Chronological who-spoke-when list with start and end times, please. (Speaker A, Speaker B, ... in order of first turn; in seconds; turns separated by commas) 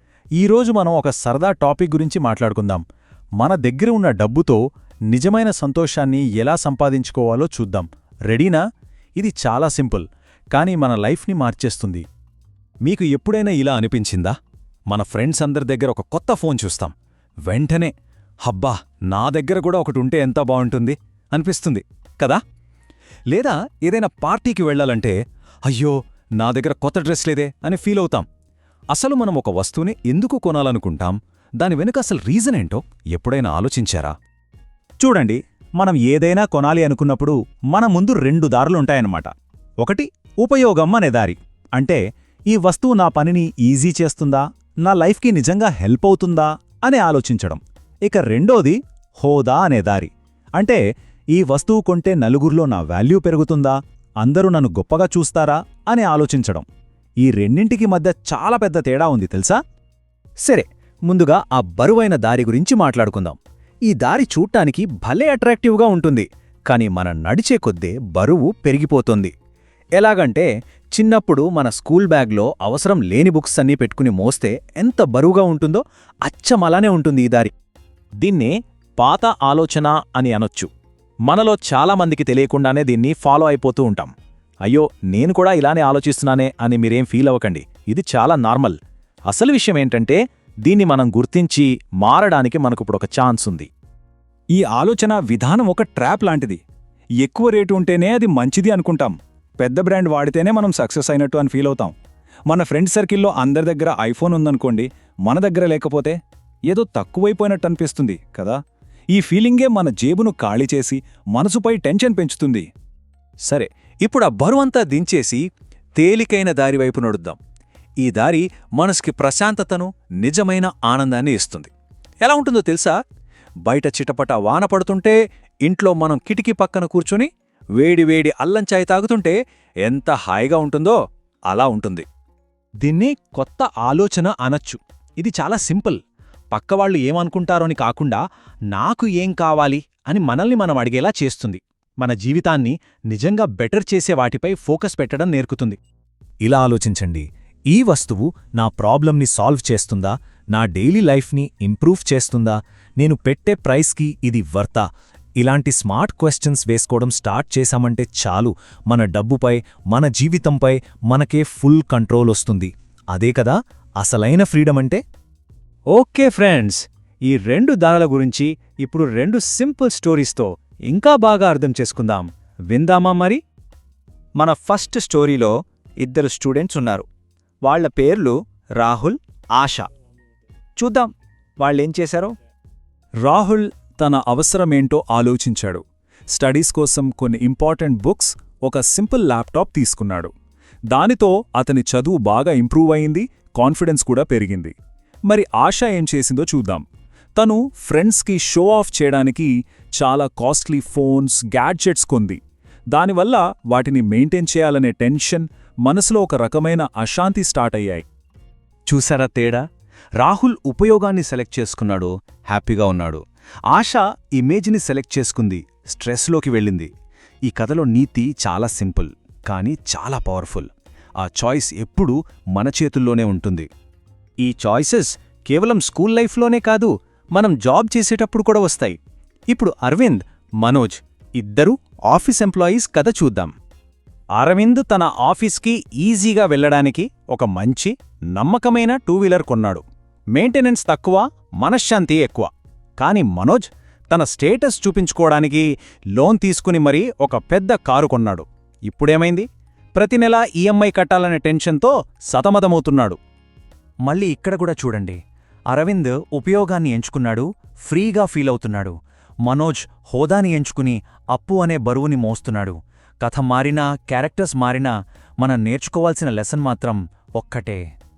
Speaker A: 0.3-2.8, Speaker A: 3.4-8.6, Speaker A: 9.2-12.0, Speaker A: 12.8-14.3, Speaker A: 14.9-16.9, Speaker A: 17.4-22.4, Speaker A: 23.3-28.3, Speaker A: 28.9-34.1, Speaker A: 35.0-39.3, Speaker A: 39.8-56.6, Speaker A: 57.2-59.6, Speaker A: 60.4-69.3, Speaker A: 69.9-77.5, Speaker A: 78.2-80.7, Speaker A: 81.3-84.1, Speaker A: 84.7-88.8, Speaker A: 89.3-93.7, Speaker A: 94.5-96.6, Speaker A: 97.2-101.9, Speaker A: 102.5-106.2, Speaker A: 106.7-108.6, Speaker A: 109.1-112.7, Speaker A: 113.4-115.4, Speaker A: 116.0-117.4, Speaker A: 118.0-121.7, Speaker A: 122.2-123.0, Speaker A: 123.6-132.0, Speaker A: 132.8-136.0, Speaker A: 136.5-145.8, Speaker A: 146.4-154.8, Speaker A: 155.4-165.0, Speaker A: 165.9-173.4, Speaker A: 174.4-177.1, Speaker A: 177.6-179.9, Speaker A: 180.8-181.1, Speaker A: 181.6-182.3, Speaker A: 183.2-190.3, Speaker A: 190.9-194.7, Speaker A: 195.3-196.8, Speaker A: 197.4-202.4, Speaker A: 202.9-208.1, Speaker A: 208.9-209.6, Speaker A: 210.2-216.9, Speaker A: 217.4-223.7, Speaker A: 224.4-229.0, Speaker A: 229.5-233.5, Speaker A: 234.3-239.8, Speaker A: 240.3-253.2, Speaker A: 254.0-267.8